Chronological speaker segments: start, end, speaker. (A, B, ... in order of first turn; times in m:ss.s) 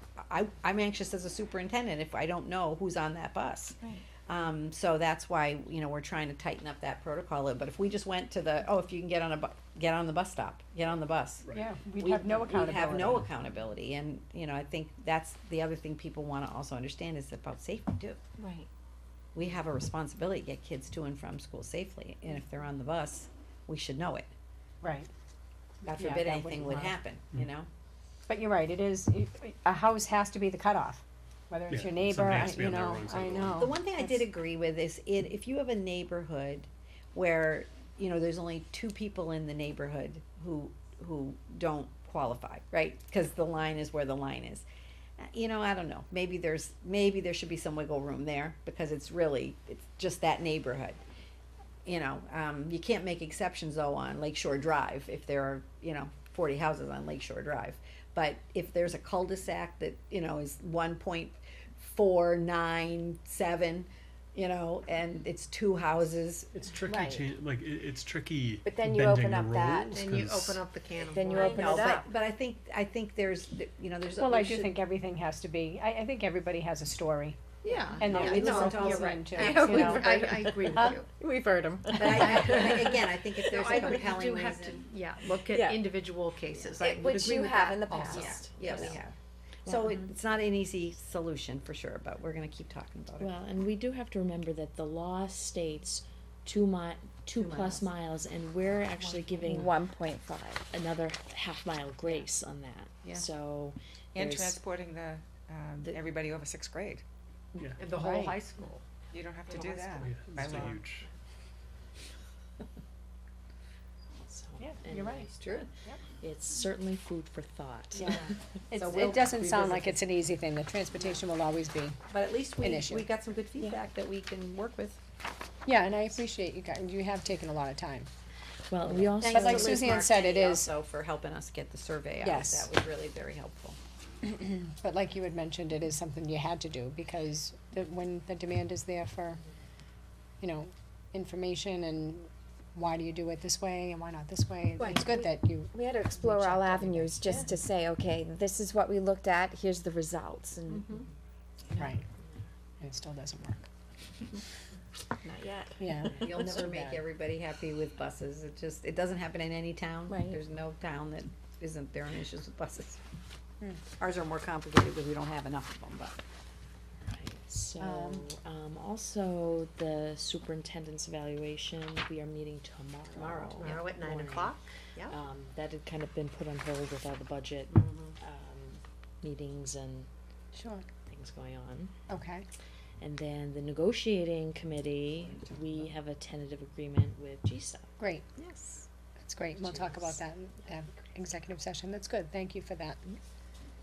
0:00.3-0:11.4 A
0:11.5-0:13.3 B
0:12.0-0:18.2 A
0:19.3-0:24.3 A
0:24.8-0:25.1 B
0:25.8-0:27.7 A
0:25.9-0:27.0 B
0:28.3-0:34.3 B
0:31.7-0:33.7 C
0:33.6-0:44.6 A
0:45.2-0:51.0 A
0:51.8-1:06.5 A
1:06.5-1:10.7 C
1:06.8-1:07.2 D
1:08.6-1:10.0 D
1:09.9-1:11.9 E
1:11.0-1:12.1 D
1:11.3-1:14.8 A
1:14.2-1:17.4 B
1:17.6-1:20.1 A
1:17.6-1:28.9 E
1:18.0-1:21.0 B
1:19.4-1:20.9 D
1:21.5-1:22.4 D
1:21.9-1:24.9 A
1:23.7-1:24.0 D
1:25.3-1:25.9 D
1:26.8-1:29.0 D
1:28.0-1:29.1 A
1:28.3-1:29.0 F
1:29.6-1:30.0 F
1:29.6-1:33.4 A
1:33.2-1:39.7 F
1:37.3-1:37.9 A
1:39.4-1:40.6 D
1:40.7-1:44.6 F
1:44.1-1:47.0 G
1:47.8-1:48.8 E
1:47.9-1:48.4 B
1:49.1-1:50.8 G
1:49.5-1:50.1 E
1:49.9-1:51.1 C
1:50.8-1:51.1 F
1:54.3-1:55.7 F
1:54.6-1:55.3 B
1:56.2-1:58.4 F
1:58.0-2:02.0 B
1:58.8-2:00.0 A
2:02.1-2:05.0 A
2:02.6-2:03.1 B
2:05.6-2:08.1 B
2:08.7-2:10.0 F
2:08.8-2:13.8 A
2:09.2-2:10.7 B
2:12.2-2:12.7 B
2:14.2-2:19.4 B
2:20.4-2:27.5 B
2:24.8-2:30.9 D
2:30.7-2:31.0 A
2:31.7-2:32.0 F
2:31.8-2:32.0 B
2:32.8-2:33.6 B
2:35.3-2:35.6 D
2:35.8-2:37.0 B
2:36.1-2:43.0 A
2:40.1-2:40.4 D
2:44.0-2:46.2 A
2:47.0-3:00.1 F
2:47.8-2:48.2 B
2:53.2-2:53.8 A
2:53.2-2:55.0 E
2:57.7-2:58.1 A
3:00.6-3:00.8 B
3:01.0-3:01.9 F
3:02.1-3:02.4 B
3:03.0-3:07.9 F
3:08.0-3:08.3 B
3:09.2-3:13.0 B
3:09.6-3:10.2 F